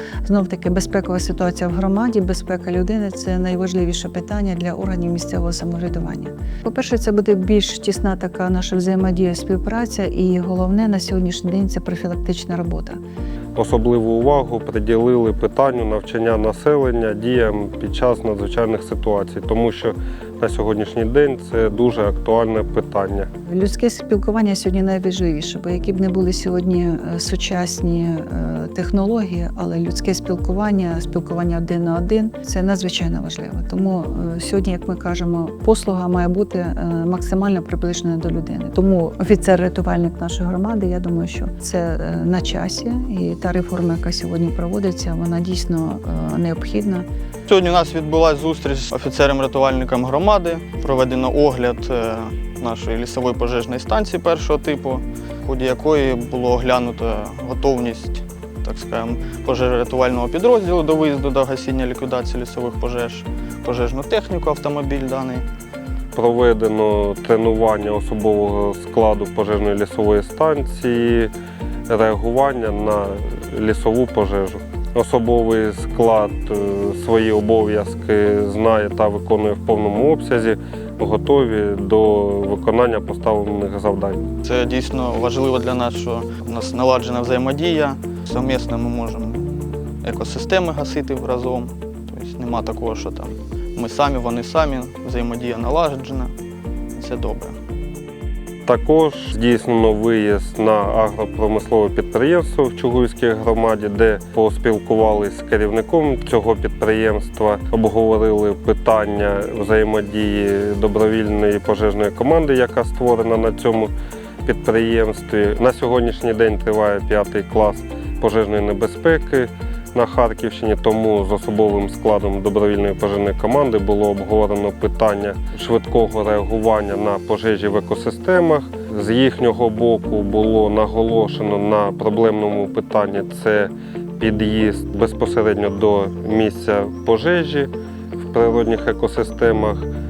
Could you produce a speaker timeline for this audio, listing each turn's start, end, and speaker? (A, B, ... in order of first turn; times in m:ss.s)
0:00.2-0:13.0 A
0:13.5-0:23.3 B
0:23.4-0:47.0 A
0:47.5-1:05.4 C
1:06.1-1:11.3 B
1:11.9-1:24.2 B
1:24.4-1:36.3 C
1:36.9-1:37.6 C
1:38.6-1:53.9 B
1:54.4-2:17.7 B
2:18.3-2:19.9 B